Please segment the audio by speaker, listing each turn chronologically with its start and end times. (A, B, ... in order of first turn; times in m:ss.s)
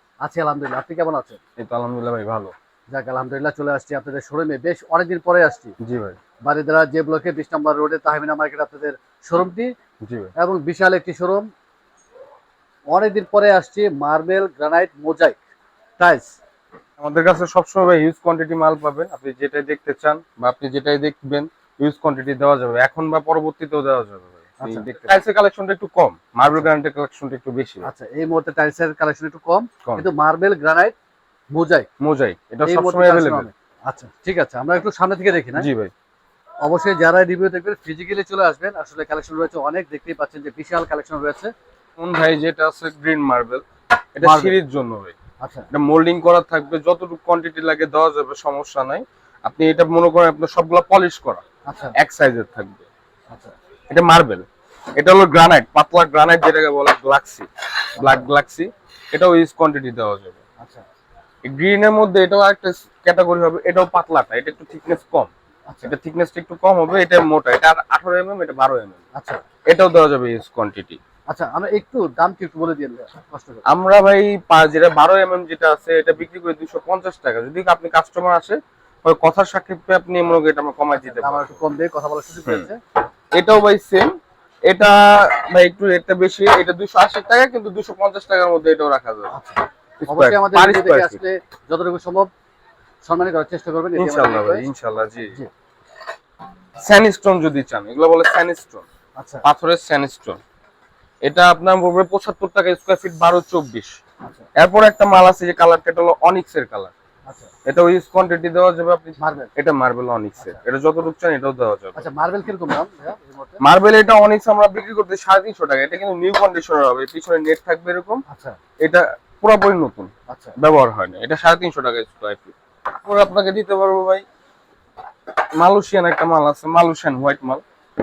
0:00.2-0:01.4 A
0:01.6-0:02.5 B
0:02.9-0:05.8 A
0:05.8-0:06.2 B
0:06.4-0:09.7 A
0:10.0-0:10.3 B
0:10.4-0:11.5 A
0:12.9-0:15.4 A
0:16.0-0:16.4 A
0:17.0-0:27.9 B
0:24.6-0:24.9 A
0:27.8-0:31.0 A
0:31.5-0:31.9 A
0:32.0-0:33.5 B
0:32.6-0:35.7 A
0:35.6-0:35.9 B
0:36.6-0:41.5 A
0:42.0-0:43.6 B
0:44.2-0:45.2 B
0:44.2-0:44.6 A
0:45.4-0:45.7 A
0:45.7-0:51.4 B
0:51.7-0:52.0 A
0:52.0-0:52.9 B
0:53.9-1:00.4 B
0:58.0-0:58.3 A
1:01.4-1:05.3 B
1:05.7-1:05.9 A
1:05.8-1:09.0 B
1:09.2-1:09.4 A
1:09.7-1:11.0 B
1:11.3-1:13.6 A
1:13.7-1:21.6 B
1:21.0-1:22.8 A
1:23.3-1:24.1 B
1:24.7-1:29.3 B
1:29.3-1:32.3 A
1:30.0-1:31.2 B
1:33.0-1:34.7 A
1:34.0-1:35.4 B
1:36.8-1:38.9 B
1:39.2-1:39.4 A
1:39.4-1:40.4 B
1:41.2-1:44.0 B
1:44.6-1:46.9 B
1:47.6-1:52.0 B
1:49.2-1:49.5 A
1:52.0-1:53.6 A
1:53.6-1:58.2 B
1:58.3-1:58.6 A
1:58.8-2:04.2 B
2:00.3-2:00.6 A
2:05.6-2:07.6 B